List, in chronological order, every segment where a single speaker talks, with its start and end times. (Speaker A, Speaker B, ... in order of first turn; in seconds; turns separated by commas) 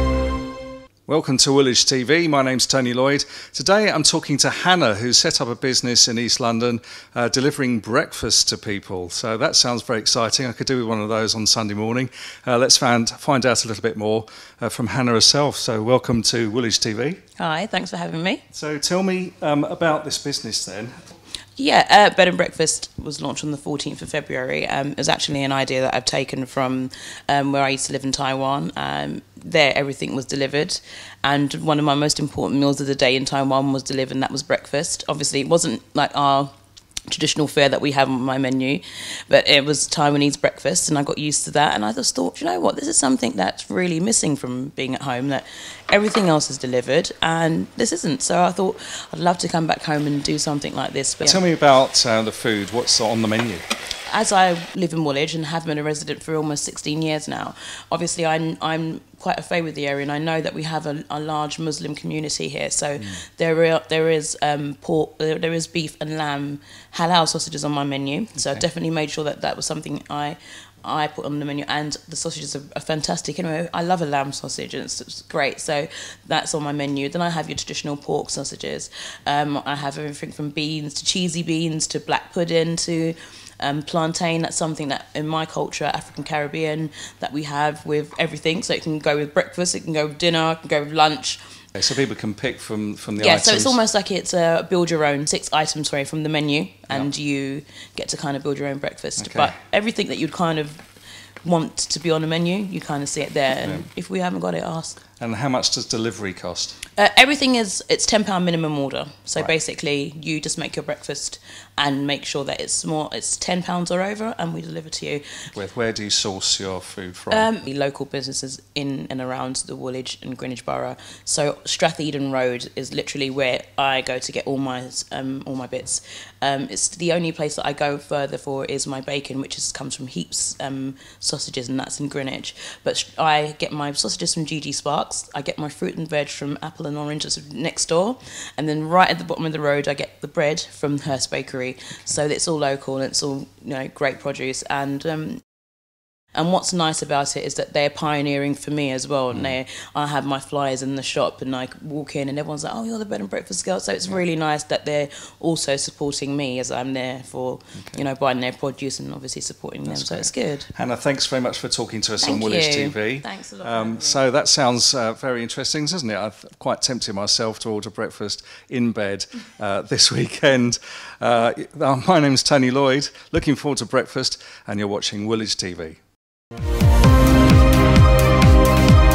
Speaker A: 1.1-17.2, Speaker B: 17.4-18.4, Speaker A: 18.5-20.9, Speaker B: 21.6-36.5, Speaker B: 37.1-51.4, Speaker A: 51.2-53.6, Speaker B: 54.1-91.4, Speaker A: 91.7-93.8, Speaker B: 93.2-100.8, Speaker A: 99.2-99.5, Speaker B: 101.4-105.0, Speaker A: 105.2-106.8, Speaker B: 106.9-115.3, Speaker A: 115.5-117.5, Speaker B: 117.3-145.4, Speaker B: 146.3-160.7, Speaker A: 159.9-176.0, Speaker B: 162.2-164.2